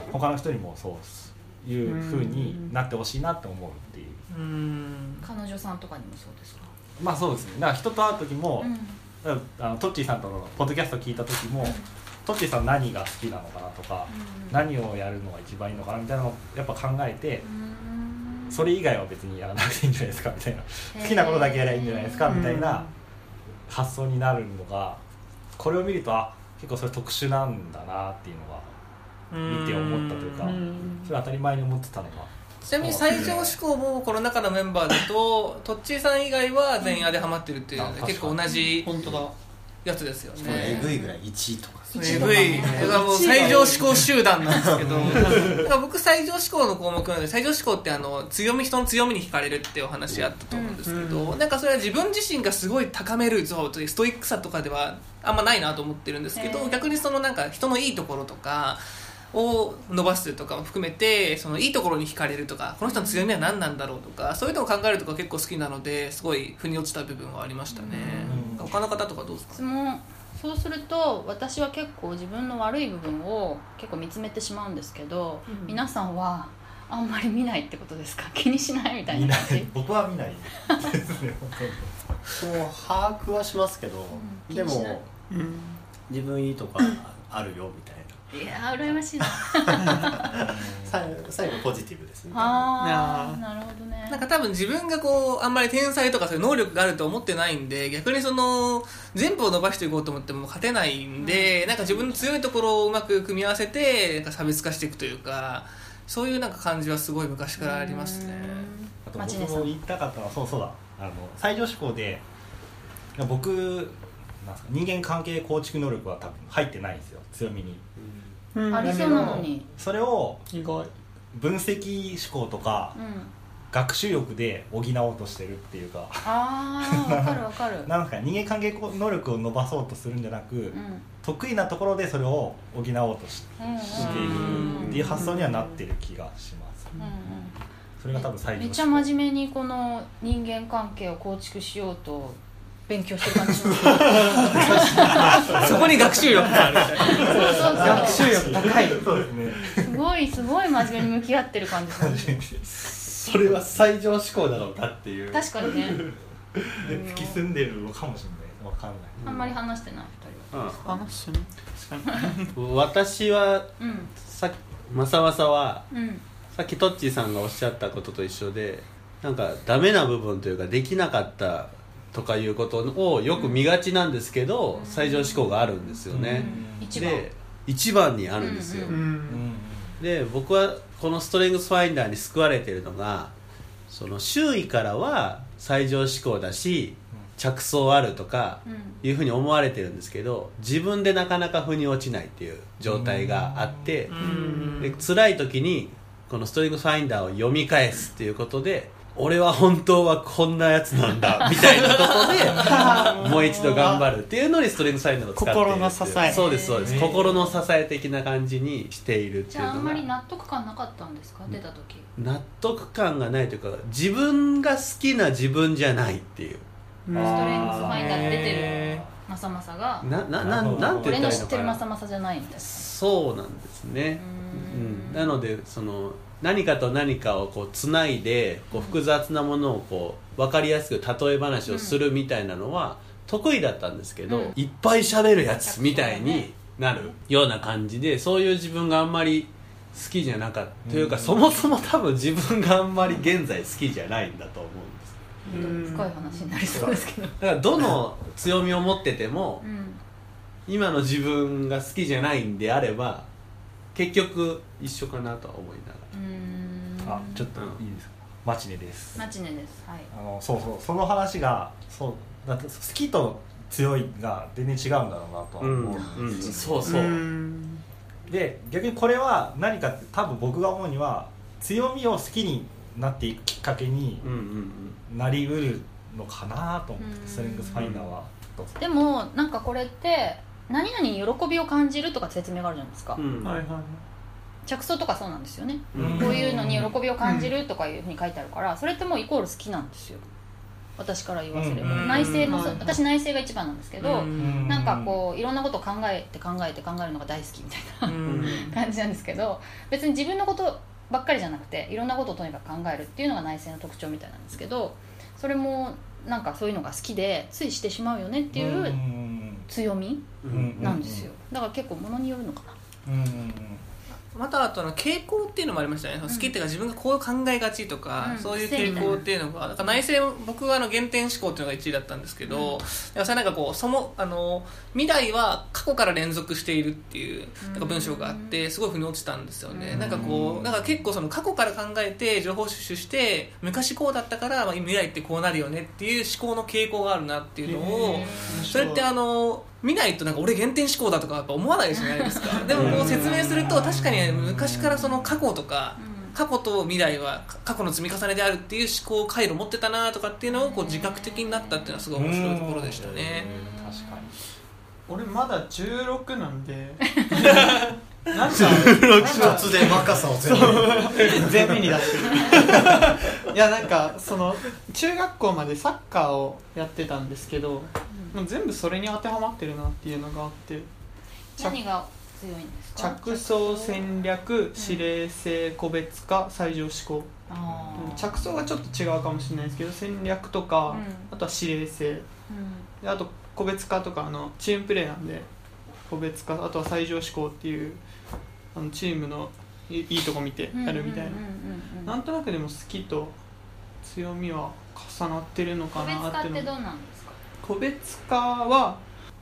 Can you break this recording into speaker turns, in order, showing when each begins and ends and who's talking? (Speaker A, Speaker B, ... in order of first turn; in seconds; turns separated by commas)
Speaker A: 0.1-4.2, Speaker B: 1.9-2.7, Speaker C: 4.3-5.3, Speaker D: 5.2-6.7, Speaker A: 7.0-17.5, Speaker D: 8.6-9.0, Speaker D: 11.6-11.9, Speaker D: 14.1-14.7, Speaker D: 17.4-18.6, Speaker A: 18.5-22.9, Speaker D: 20.9-22.4, Speaker B: 22.3-22.9, Speaker A: 23.7-25.0, Speaker A: 25.6-28.7, Speaker C: 29.3-30.6, Speaker A: 29.4-33.6, Speaker B: 30.4-31.1, Speaker C: 32.6-38.9, Speaker A: 37.8-38.4, Speaker B: 38.7-39.4, Speaker C: 39.9-40.9, Speaker E: 40.4-43.0, Speaker D: 40.5-41.1, Speaker D: 41.9-43.1, Speaker C: 41.9-69.6, Speaker B: 42.1-44.1, Speaker B: 45.0-45.5, Speaker D: 50.5-50.8, Speaker B: 50.9-51.4, Speaker D: 56.4-56.9, Speaker D: 62.9-63.5, Speaker D: 67.7-68.7, Speaker A: 68.2-68.7, Speaker D: 69.5-79.7, Speaker B: 75.5-75.8, Speaker A: 79.1-82.1, Speaker E: 82.4-85.1, Speaker D: 84.1-85.0, Speaker B: 85.3-85.8, Speaker E: 86.1-92.7, Speaker D: 88.3-90.3, Speaker A: 90.4-91.0, Speaker D: 92.3-94.3, Speaker B: 92.8-93.4, Speaker C: 94.1-108.7, Speaker D: 101.2-102.3, Speaker D: 107.6-109.7, Speaker A: 109.1-112.2, Speaker A: 113.2-117.9, Speaker B: 118.5-119.5, Speaker D: 118.7-119.7, Speaker A: 118.8-120.5, Speaker B: 120.5-120.9, Speaker A: 121.3-123.0, Speaker D: 122.9-123.3, Speaker A: 123.7-126.3, Speaker D: 126.2-127.9, Speaker A: 126.8-136.9, Speaker D: 130.7-131.1, Speaker D: 133.6-135.3, Speaker C: 134.0-134.9, Speaker E: 134.1-135.2, Speaker B: 135.1-135.7, Speaker D: 137.0-137.6, Speaker A: 138.0-139.1, Speaker D: 138.1-145.6, Speaker A: 144.2-146.1, Speaker C: 145.4-147.3, Speaker D: 147.0-148.3, Speaker A: 147.1-150.0, Speaker B: 147.5-149.1, Speaker D: 149.7-152.4, Speaker A: 151.9-152.7, Speaker F: 152.7-156.2, Speaker D: 155.3-156.0, Speaker A: 156.8-159.5, Speaker D: 156.8-157.4, Speaker D: 159.2-161.0, Speaker F: 160.5-160.9, Speaker B: 160.8-162.6, Speaker F: 162.6-166.0, Speaker D: 163.8-164.1, Speaker D: 165.9-166.2, Speaker F: 166.5-179.1, Speaker D: 173.3-173.6, Speaker D: 174.8-177.3, Speaker A: 176.1-177.1, Speaker D: 178.4-179.0, Speaker B: 178.9-179.5, Speaker A: 179.3-180.0, Speaker F: 180.0-183.3, Speaker F: 183.9-194.1, Speaker D: 188.7-189.0, Speaker A: 192.9-194.0, Speaker C: 194.1-194.9, Speaker B: 194.2-195.1, Speaker F: 194.8-210.1, Speaker B: 202.5-204.1, Speaker B: 205.3-206.5, Speaker D: 206.3-207.6, Speaker A: 206.8-207.1, Speaker D: 209.5-212.1, Speaker F: 212.2-216.7, Speaker B: 217.1-219.0, Speaker A: 217.1-219.1, Speaker D: 217.2-220.1, Speaker F: 220.0-221.8, Speaker A: 220.4-221.5, Speaker D: 220.8-222.9, Speaker F: 222.6-245.2, Speaker D: 224.2-225.4, Speaker D: 228.7-229.0, Speaker D: 231.7-232.0, Speaker D: 234.3-234.6, Speaker D: 235.7-236.5, Speaker A: 240.8-241.4, Speaker B: 245.4-246.1, Speaker D: 245.5-247.4, Speaker E: 246.7-247.0, Speaker F: 247.4-249.6, Speaker D: 249.6-250.0, Speaker F: 250.7-253.3, Speaker F: 253.9-256.1, Speaker D: 256.1-257.5, Speaker A: 257.0-259.3, Speaker F: 257.6-257.8, Speaker D: 259.2-260.1, Speaker A: 260.1-267.0, Speaker F: 265.6-267.2, Speaker D: 266.0-266.2, Speaker B: 266.8-267.8, Speaker A: 268.3-274.3, Speaker F: 274.2-275.0, Speaker A: 275.1-278.8, Speaker D: 277.0-277.8, Speaker F: 277.8-278.1, Speaker D: 278.8-283.2, Speaker F: 283.2-283.6, Speaker B: 283.4-284.0, Speaker D: 284.6-290.2, Speaker F: 285.9-286.6, Speaker A: 285.9-286.9, Speaker B: 287.2-287.5, Speaker D: 291.0-309.0, Speaker A: 291.5-292.4, Speaker C: 291.8-292.7, Speaker B: 292.4-293.0, Speaker C: 294.0-294.6, Speaker A: 294.3-295.2, Speaker C: 298.1-298.7, Speaker F: 298.3-298.8, Speaker A: 308.5-309.7, Speaker D: 309.6-310.3, Speaker F: 310.4-311.0, Speaker A: 310.5-311.3, Speaker D: 310.8-312.8, Speaker A: 313.1-313.9, Speaker C: 314.3-353.5, Speaker D: 316.3-316.5, Speaker D: 318.2-319.3, Speaker D: 322.4-322.8, Speaker D: 327.6-328.6, Speaker D: 329.7-330.4, Speaker A: 329.9-330.8, Speaker B: 337.6-339.1, Speaker D: 338.0-338.6, Speaker D: 342.0-343.7, Speaker B: 342.7-343.4, Speaker F: 342.8-343.0, Speaker A: 343.6-345.4, Speaker D: 346.0-346.4, Speaker D: 350.5-352.0, Speaker A: 352.1-354.4, Speaker D: 353.3-354.3, Speaker B: 355.1-370.9, Speaker F: 358.5-359.4, Speaker E: 359.1-361.8, Speaker D: 368.1-368.4, Speaker D: 371.6-374.0, Speaker B: 373.0-377.3, Speaker D: 374.8-375.1, Speaker D: 377.5-378.4, Speaker A: 377.7-378.1, Speaker B: 378.0-382.3, Speaker D: 380.9-381.3, Speaker D: 382.5-382.9, Speaker B: 383.0-385.5, Speaker B: 386.1-388.0, Speaker B: 388.7-391.4, Speaker D: 390.7-392.2, Speaker B: 392.0-393.3, Speaker B: 394.0-396.7, Speaker D: 395.9-397.4, Speaker B: 397.6-399.0